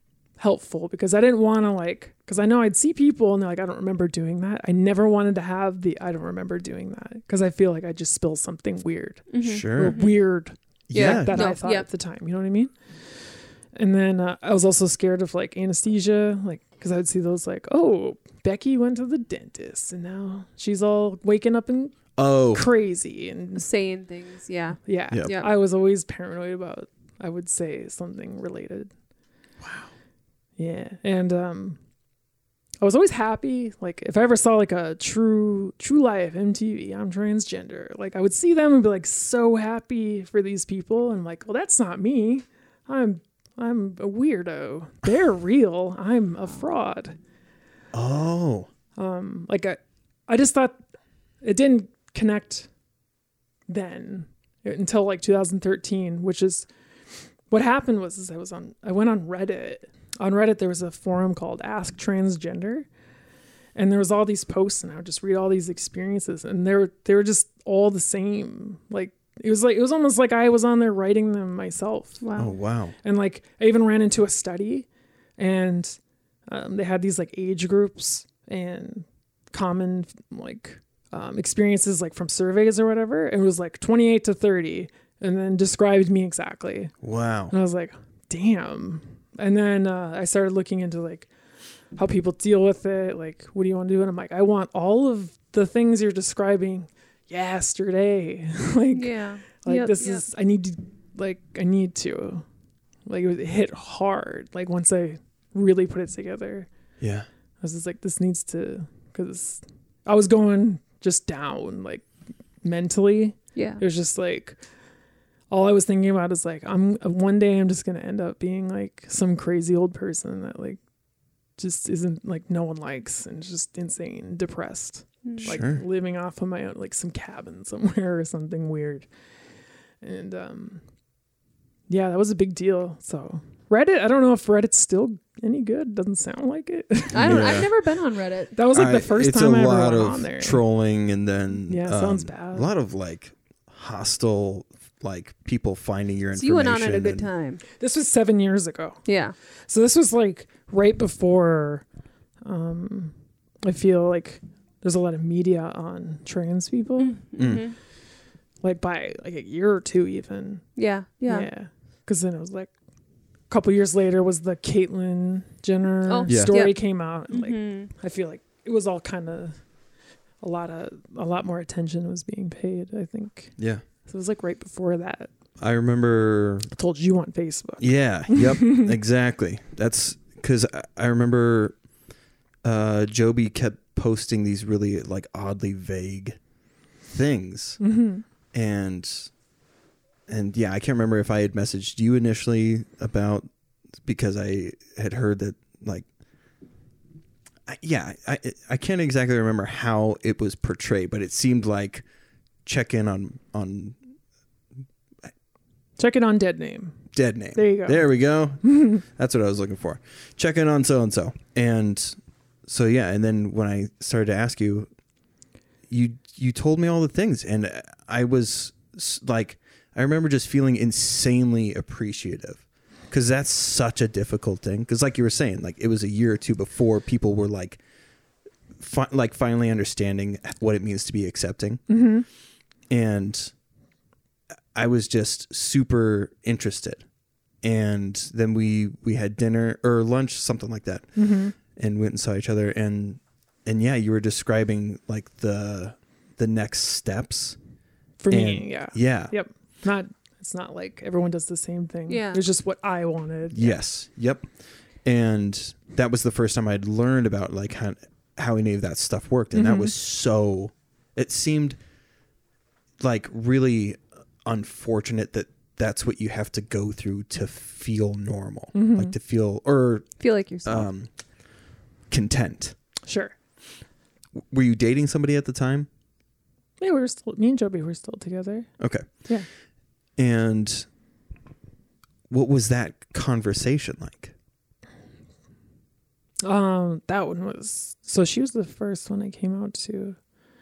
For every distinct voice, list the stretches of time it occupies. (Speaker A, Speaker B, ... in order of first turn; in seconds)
Speaker A: 0.4-12.7, 13.8-23.6, 24.9-28.9, 30.6-31.8, 32.8-47.2, 49.0-50.8, 51.4-52.7, 53.7-56.7, 57.5-62.9, 63.8-72.2, 73.0-74.9, 75.4-76.0, 76.5-86.9, 87.5-91.3, 92.0-102.5, 103.1-106.7, 107.6-112.1, 112.6-114.6, 115.5-120.8, 121.6-129.1, 130.0-130.8, 131.9-137.7, 138.5-140.6, 141.7-142.7, 147.8-149.0, 149.7-151.8, 152.4-157.2, 158.6-160.6, 161.3-162.7, 163.5-169.6, 170.4-173.6, 174.1-175.3, 176.7-178.9, 187.8-188.2, 206.0-207.0, 207.6-208.1, 208.7-209.0, 231.9-232.3, 241.2-241.6, 248.2-253.8, 259.5-259.9, 268.7-269.1, 273.1-273.4, 276.8-278.7, 286.4-290.2
Speaker B: 9.3-10.2, 10.9-11.8, 23.6-25.5, 72.2-72.5, 98.9-100.2, 113.5-113.8, 125.2-125.6, 137.1-138.6, 146.3-147.6, 149.1-149.3, 157.0-157.8, 160.8-161.5, 166.1-167.9, 252.1-252.4, 270.2-270.9
Speaker C: 9.4-10.0, 10.9-11.5, 22.2-22.7, 29.6-29.9, 47.9-48.7, 72.4-73.0, 87.0-87.5, 107.0-107.3, 125.5-125.8, 137.1-137.7, 138.7-147.3, 157.4-157.7, 166.3-166.6, 173.6-173.8, 175.6-176.7, 177.8-181.8, 182.6-186.4, 187.0-187.8, 188.5-189.3, 190.3-193.5, 194.0-196.1, 197.7-202.0, 202.7-204.0, 207.1-214.9, 215.9-227.8, 228.8-231.8, 232.9-233.5, 234.8-237.0, 237.6-241.1, 241.7-247.6, 248.3-249.3, 253.5-254.5, 255.1-261.8, 263.0-270.1, 270.6-271.1, 272.1-272.8, 274.4-275.9, 278.8-279.1, 280.2-280.9, 282.3-284.3